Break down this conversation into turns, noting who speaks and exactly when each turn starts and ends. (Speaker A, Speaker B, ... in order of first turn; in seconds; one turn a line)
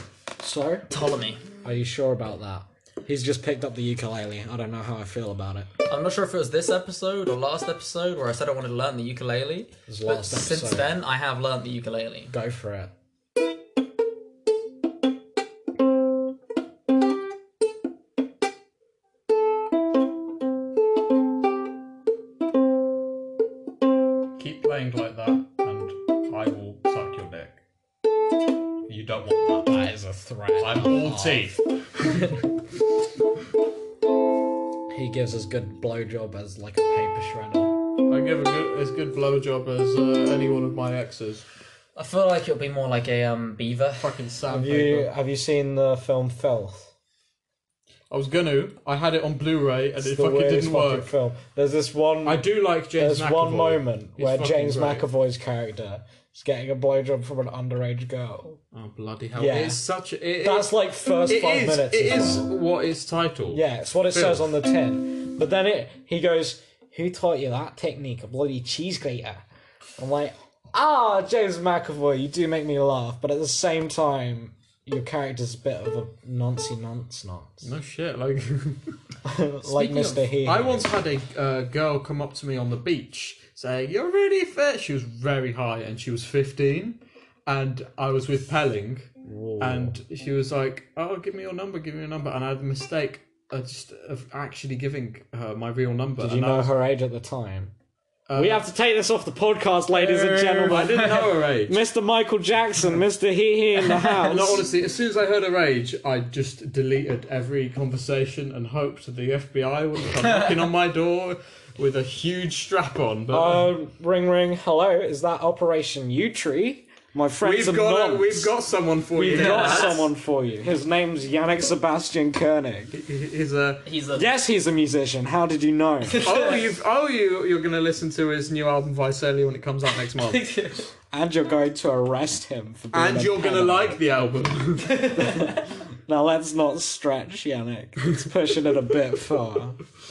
Speaker A: 0.4-0.9
Speaker B: 0.9-1.4
Speaker A: 1.6-5.7
Speaker B: 5.9-12.3
Speaker A: 9.9-10.9
Speaker A: 12.3-12.9
Speaker C: 24.4-27.6
Speaker C: 28.9-30.0
Speaker A: 29.8-31.5
Speaker C: 30.6-32.4
Speaker A: 34.9-37.8
Speaker C: 38.1-41.4
Speaker B: 42.0-44.1
Speaker C: 44.0-45.1
Speaker A: 44.5-46.9
Speaker C: 48.1-51.1
Speaker A: 50.0-58.6
Speaker C: 52.2-55.0
Speaker C: 58.7-64.4
Speaker A: 59.4-59.8
Speaker A: 60.4-62.5
Speaker A: 63.5-69.4
Speaker A: 70.0-77.7
Speaker C: 77.6-78.8
Speaker A: 79.2-80.9
Speaker B: 79.6-80.2
Speaker C: 80.4-96.7
Speaker A: 89.2-90.0
Speaker A: 96.2-97.7
Speaker C: 98.3-98.6
Speaker A: 98.3-104.7
Speaker C: 99.9-101.8
Speaker C: 104.1-113.7
Speaker B: 110.2-110.6
Speaker A: 113.3-118.5
Speaker C: 117.4-120.0
Speaker A: 119.1-123.0
Speaker B: 119.3-120.1
Speaker C: 122.9-123.8
Speaker B: 123.8-124.3
Speaker A: 124.1-126.3
Speaker B: 126.0-126.6
Speaker C: 126.2-130.5
Speaker B: 130.1-130.9
Speaker A: 131.1-134.0
Speaker C: 132.9-135.2
Speaker B: 134.8-135.7
Speaker A: 135.2-139.8